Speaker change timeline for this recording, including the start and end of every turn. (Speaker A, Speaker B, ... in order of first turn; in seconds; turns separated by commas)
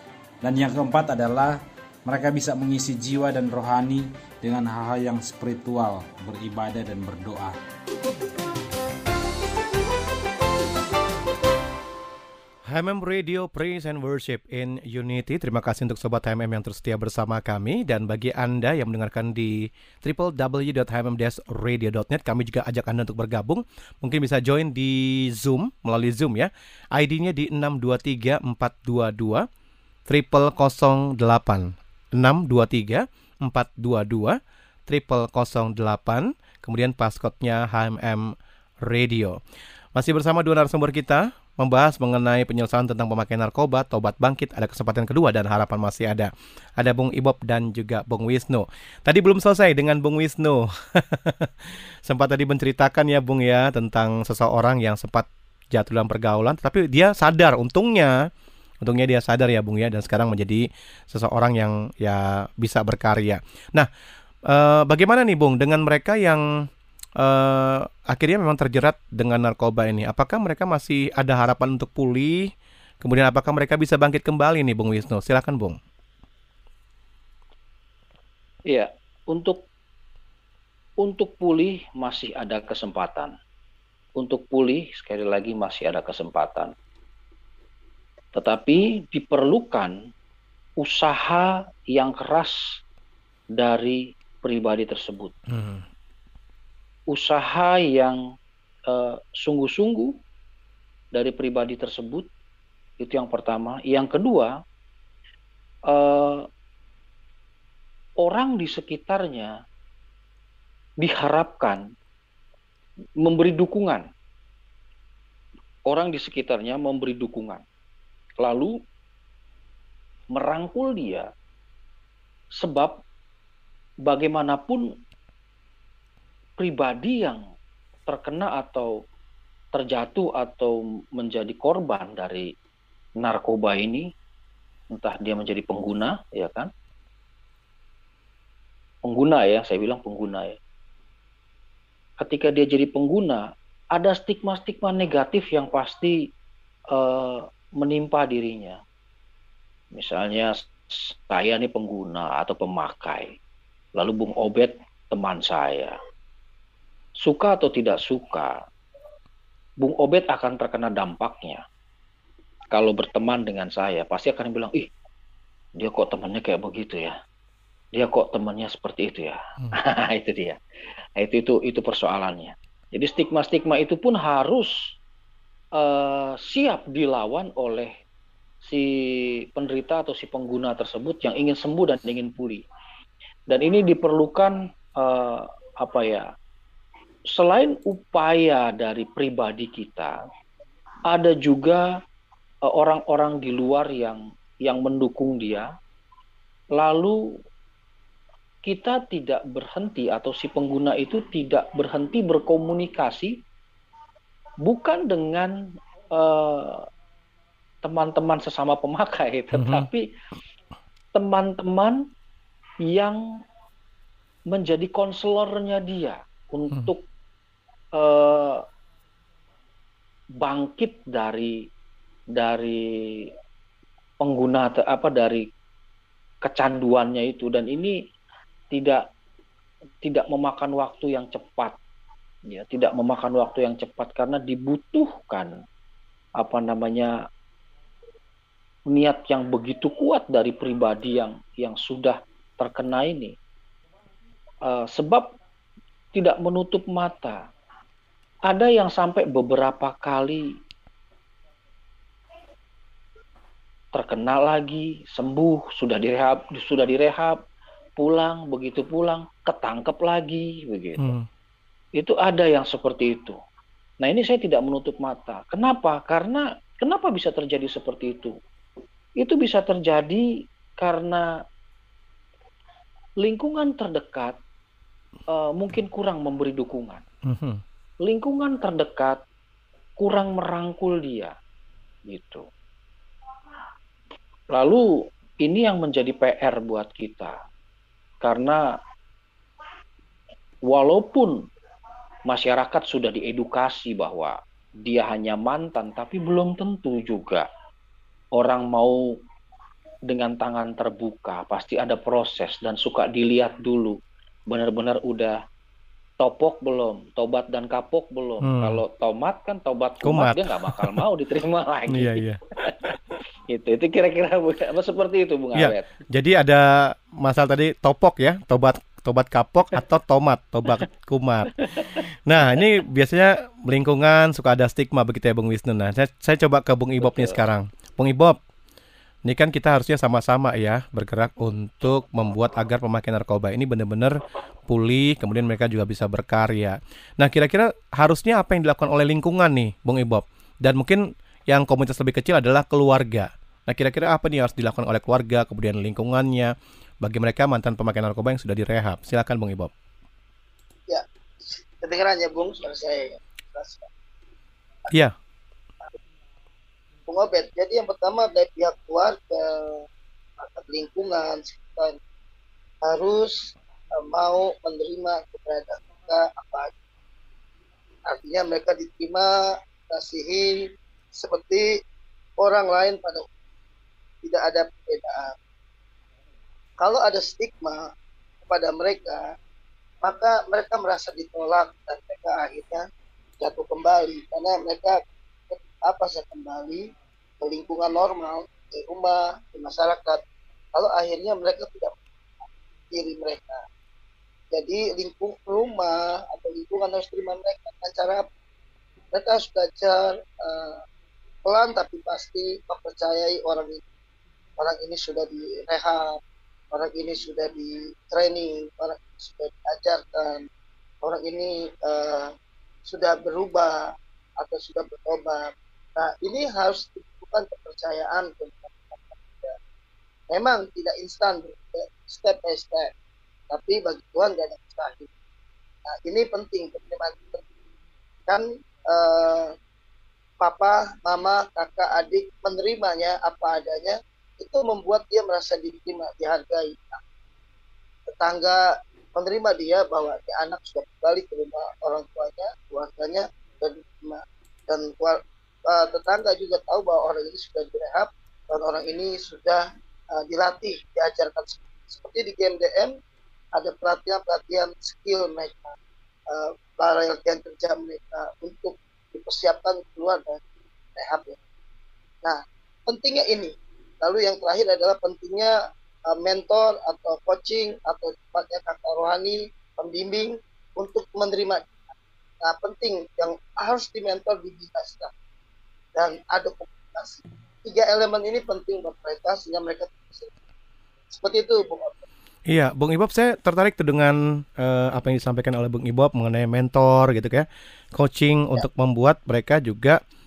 Speaker A: 0.4-7.5, Speaker B: 12.7-29.5, Speaker B: 30.1-39.4, Speaker B: 39.9-58.1, Speaker B: 58.8-63.9, Speaker B: 64.5-66.4, Speaker B: 67.2-72.5, Speaker B: 73.0-75.8, Speaker C: 78.7-79.6, Speaker C: 81.0-83.3, Speaker C: 84.2-86.7, Speaker C: 88.3-90.0, Speaker C: 90.8-92.8, Speaker C: 93.5-95.3, Speaker B: 95.5-95.8, Speaker C: 97.1-98.2, Speaker C: 98.9-100.2, Speaker C: 101.1-102.3, Speaker C: 103.0-104.6, Speaker C: 105.9-106.5, Speaker C: 108.2-109.5, Speaker C: 111.0-111.8, Speaker C: 113.2-114.1, Speaker C: 115.9-117.6, Speaker C: 118.4-118.7, Speaker C: 120.3-121.3, Speaker C: 122.6-123.0, Speaker C: 124.0-124.9, Speaker C: 126.6-127.4, Speaker C: 128.1-128.9, Speaker C: 129.7-132.5, Speaker C: 133.2-134.1, Speaker C: 134.9-136.7, Speaker C: 139.0-140.6, Speaker C: 142.2-146.3, Speaker C: 146.9-148.8, Speaker C: 149.9-153.3, Speaker C: 154.0-155.9, Speaker C: 157.2-158.6, Speaker C: 159.8-161.6, Speaker C: 162.7-164.9, Speaker C: 165.8-167.2, Speaker C: 167.9-170.6, Speaker C: 171.2-174.9, Speaker C: 175.8-177.9, Speaker C: 178.6-182.6, Speaker C: 183.5-186.3, Speaker C: 187.3-190.2, Speaker C: 191.1-191.9, Speaker C: 192.7-195.7, Speaker C: 196.7-197.2, Speaker C: 198.7-203.4, Speaker C: 204.6-205.5, Speaker C: 206.1-206.8, Speaker C: 207.8-210.0, Speaker B: 209.5-209.9, Speaker C: 211.1-212.0, Speaker C: 212.8-213.2, Speaker C: 214.5-217.0, Speaker C: 217.9-218.6, Speaker C: 220.4-221.6, Speaker C: 222.3-223.3, Speaker C: 224.2-225.4, Speaker C: 226.4-228.0, Speaker C: 228.7-229.0, Speaker C: 230.0-231.8, Speaker C: 232.4-235.5, Speaker C: 236.4-237.1, Speaker C: 238.9-243.3, Speaker C: 244.6-245.3, Speaker C: 246.1-247.4, Speaker C: 248.5-250.4, Speaker C: 253.9-257.4, Speaker C: 258.0-261.1, Speaker B: 261.0-261.3, Speaker C: 262.0-263.4, Speaker C: 264.0-268.3, Speaker C: 269.2-271.3, Speaker C: 273.2-274.4, Speaker C: 275.3-277.0, Speaker B: 277.2-277.6, Speaker C: 278.0-279.2, Speaker C: 280.0-281.3, Speaker C: 282.1-282.4, Speaker C: 284.5-287.4, Speaker C: 288.2-288.6, Speaker C: 290.6-291.4, Speaker C: 292.3-297.5, Speaker C: 298.4-299.0, Speaker C: 300.1-304.0, Speaker C: 304.5-305.4, Speaker C: 306.2-312.9, Speaker B: 308.4-308.8, Speaker B: 310.0-311.0, Speaker B: 311.9-312.9, Speaker C: 313.5-315.9, Speaker B: 315.5-321.5, Speaker C: 321.7-322.0, Speaker B: 322.2-328.4, Speaker C: 327.0-327.4, Speaker B: 329.2-349.7, Speaker D: 350.9-353.9, Speaker D: 357.1-359.8, Speaker D: 360.4-362.0, Speaker D: 362.8-366.7, Speaker D: 368.1-369.3, Speaker D: 369.9-371.7, Speaker D: 372.4-373.3, Speaker D: 374.2-375.3, Speaker D: 376.8-377.8, Speaker D: 378.4-379.2, Speaker D: 380.0-382.8, Speaker D: 383.4-386.9, Speaker D: 387.4-390.2, Speaker D: 390.7-391.9, Speaker D: 392.9-393.6, Speaker D: 394.5-398.3, Speaker D: 399.1-400.8, Speaker D: 401.4-403.8, Speaker D: 404.6-406.2, Speaker D: 406.7-410.5, Speaker D: 411.0-412.3, Speaker D: 412.9-413.8, Speaker D: 414.4-419.5, Speaker D: 420.3-422.9, Speaker D: 423.5-425.1, Speaker D: 425.9-427.4, Speaker D: 428.3-429.5, Speaker D: 430.4-437.0, Speaker D: 438.1-449.6, Speaker D: 450.1-452.9, Speaker D: 453.5-455.7, Speaker D: 456.3-460.4, Speaker D: 460.9-461.4, Speaker D: 462.2-465.5, Speaker D: 466.1-471.8, Speaker D: 472.4-475.1, Speaker D: 475.9-480.3, Speaker D: 481.1-481.9, Speaker B: 482.5-490.0